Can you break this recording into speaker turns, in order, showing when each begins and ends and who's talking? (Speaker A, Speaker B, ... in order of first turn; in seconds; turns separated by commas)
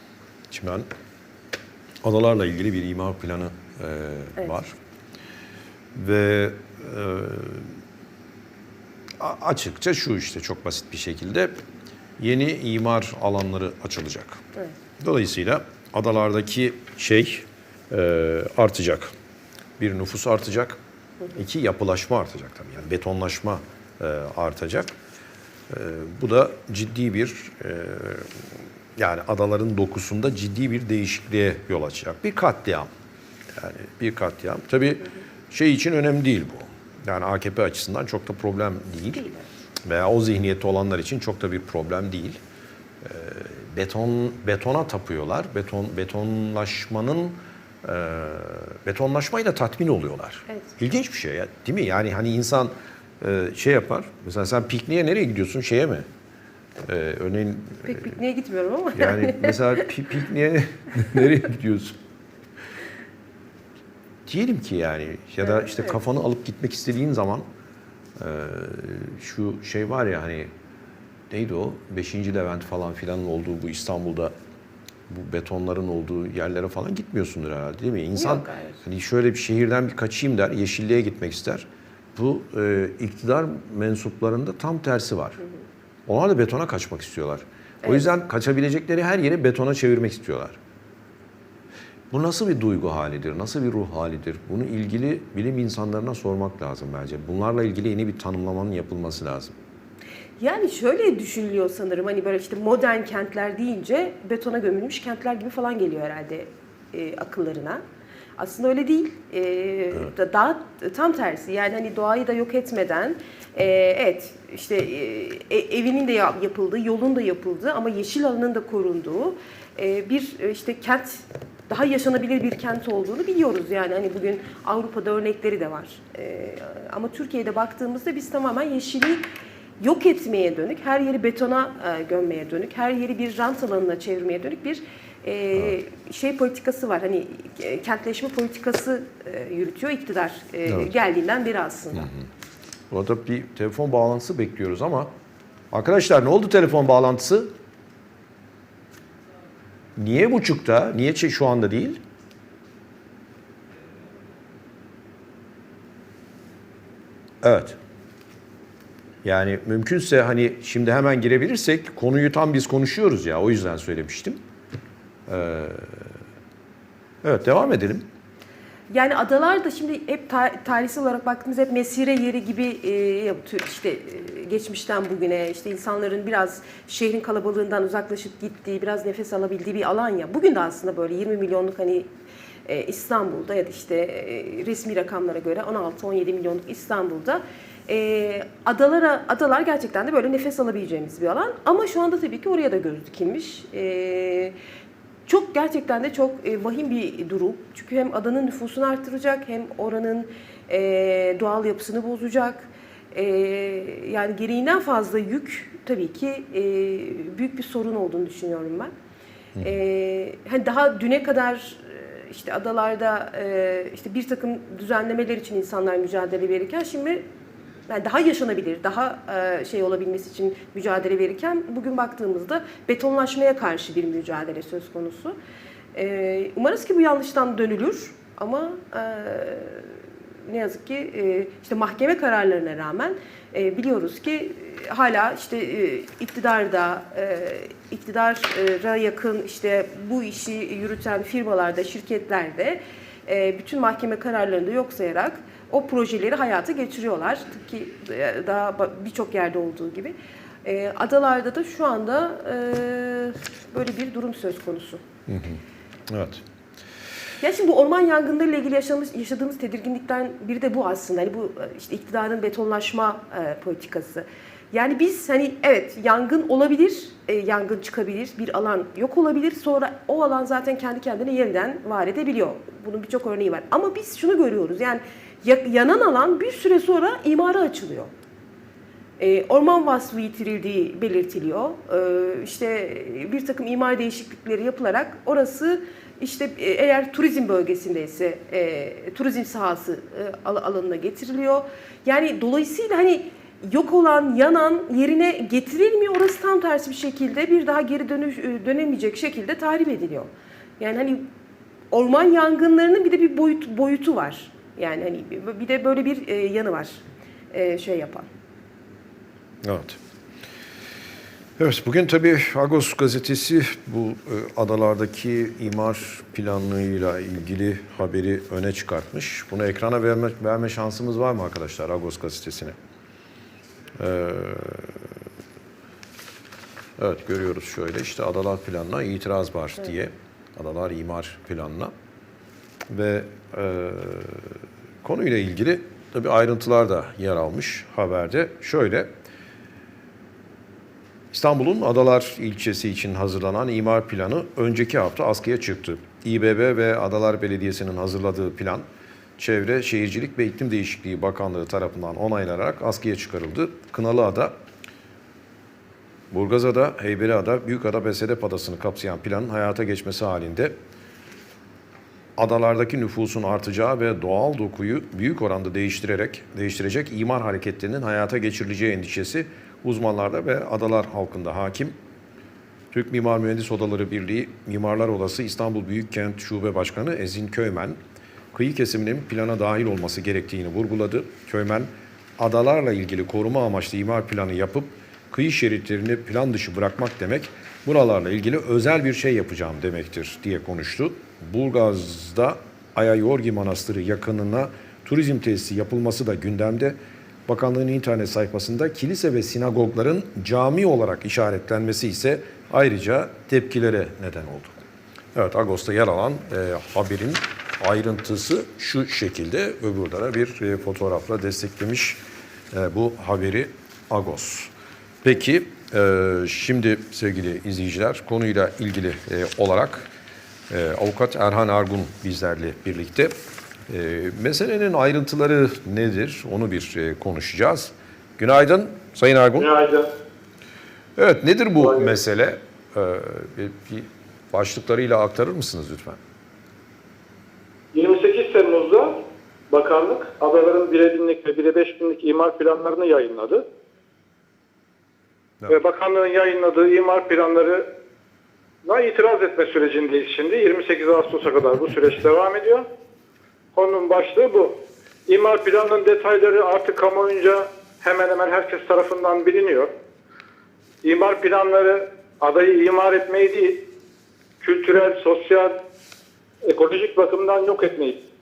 Speaker A: 0.5-0.9, Speaker A: 2.0-4.8, Speaker A: 5.9-7.8, Speaker A: 9.2-11.5, Speaker A: 12.2-14.4, Speaker A: 15.0-19.1, Speaker A: 19.8-20.8, Speaker A: 21.4-24.9, Speaker A: 25.7-32.9, Speaker A: 33.5-39.3, Speaker B: 39.2-39.4, Speaker A: 39.8-42.4, Speaker A: 43.0-56.1, Speaker A: 56.8-58.1, Speaker B: 57.8-59.9, Speaker A: 59.0-62.0, Speaker A: 64.3-67.5, Speaker B: 65.4-66.0, Speaker A: 68.2-70.5, Speaker A: 71.3-74.3, Speaker A: 75.1-85.4, Speaker B: 78.2-78.8, Speaker A: 86.1-90.6, Speaker A: 92.1-99.5, Speaker B: 100.4-107.8, Speaker B: 108.4-129.2, Speaker B: 129.8-142.1, Speaker A: 140.7-140.9, Speaker A: 141.9-142.3, Speaker A: 142.9-145.1, Speaker A: 145.7-147.5, Speaker A: 150.0-152.0, Speaker A: 157.4-157.8, Speaker A: 159.2-164.4, Speaker A: 165.3-166.1, Speaker A: 167.2-168.1, Speaker B: 168.9-182.1, Speaker B: 182.7-194.6, Speaker B: 195.3-208.9, Speaker B: 209.6-217.2, Speaker B: 217.9-225.3, Speaker B: 225.9-229.9, Speaker B: 230.5-255.0, Speaker A: 255.3-256.4, Speaker B: 257.4-278.1, Speaker B: 279.2-301.3, Speaker B: 301.9-308.3, Speaker A: 309.6-310.0, Speaker A: 311.6-322.8, Speaker A: 324.0-325.1, Speaker A: 327.0-331.9, Speaker A: 332.9-339.1, Speaker A: 341.3-348.9, Speaker A: 349.4-354.5, Speaker A: 356.3-360.7, Speaker A: 362.4-372.0, Speaker A: 372.9-378.0, Speaker A: 378.5-397.0, Speaker A: 397.5-412.2, Speaker A: 412.7-414.7, Speaker A: 415.2-420.1, Speaker A: 420.7-423.3, Speaker A: 423.9-429.7, Speaker C: 429.6-430.1, Speaker A: 431.2-436.2, Speaker C: 431.8-432.1, Speaker C: 437.9-443.6, Speaker C: 445.7-447.9, Speaker C: 448.8-452.9, Speaker C: 453.7-459.9, Speaker C: 461.0-463.8, Speaker C: 464.6-465.8, Speaker C: 466.6-468.2